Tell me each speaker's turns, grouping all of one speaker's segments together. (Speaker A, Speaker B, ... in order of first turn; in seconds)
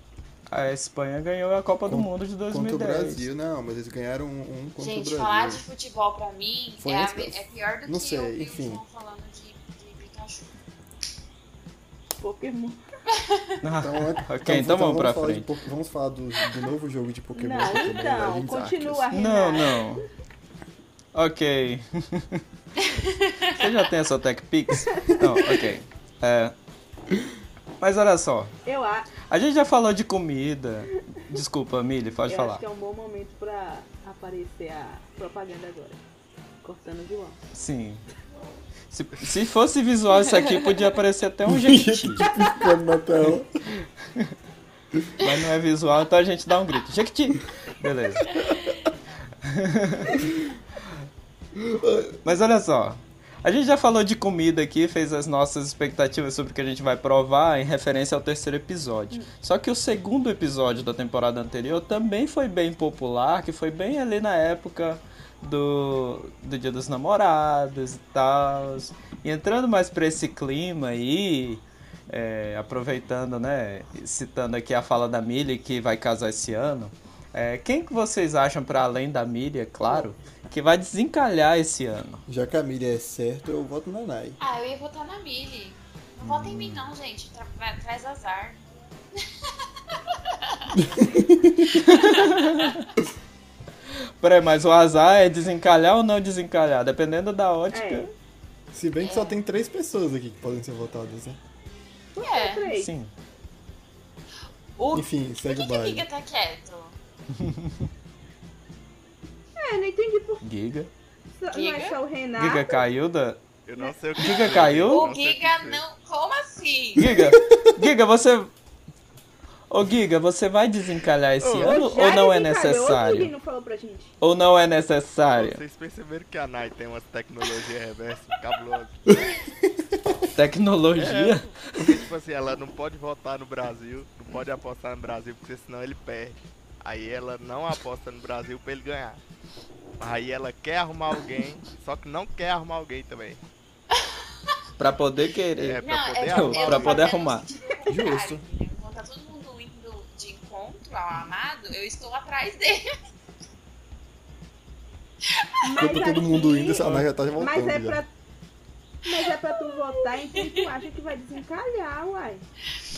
Speaker A: 0.5-3.3, 13.6-15.5, 19.1-20.1, 21.1-22.4, 23.5-26.5, 27.8-28.5, 29.2-32.6, 37.5-38.0, 38.9-42.3, 44.0-44.3, 45.2-48.3, 49.4-50.2, 52.2-82.2, 91.8-92.8, 94.2-98.1, 102.7-103.1, 107.3-107.9, 110.4-110.9, 112.4-113.4, 114.2-115.1, 117.0-118.5, 119.7-123.3, 124.2-125.6, 130.3-131.8, 144.8-147.5
Speaker B: 1.9-5.6, 6.8-8.8, 13.8-19.1, 41.5-43.5, 51.5-52.2, 82.3-84.4, 86.2-86.8, 90.8-91.8, 98.7-101.4, 104.9-106.1, 117.2-117.9, 129.2-130.1, 147.9-148.4, 155.8-158.0
Speaker C: 4.8-10.6, 13.2-13.4, 22.9-23.6, 84.4-88.6, 90.4-90.8, 92.0-92.7, 99.0-99.4, 102.2-102.7, 104.8-106.9, 111.5-112.0, 114.2-117.2, 143.9-144.2, 145.8-152.9, 160.3-160.6
Speaker D: 12.2-12.8, 17.4-20.0, 28.7-29.1, 32.3-36.0, 36.6-37.4, 97.7-98.1, 102.2-102.9, 109.6-110.4, 111.3-112.8, 121.6-124.2, 155.6-158.1, 159.1-162.4
Speaker E: 113.7-115.8, 121.4-121.8, 125.3-129.0, 130.9-139.2, 140.0-143.4, 145.6-147.2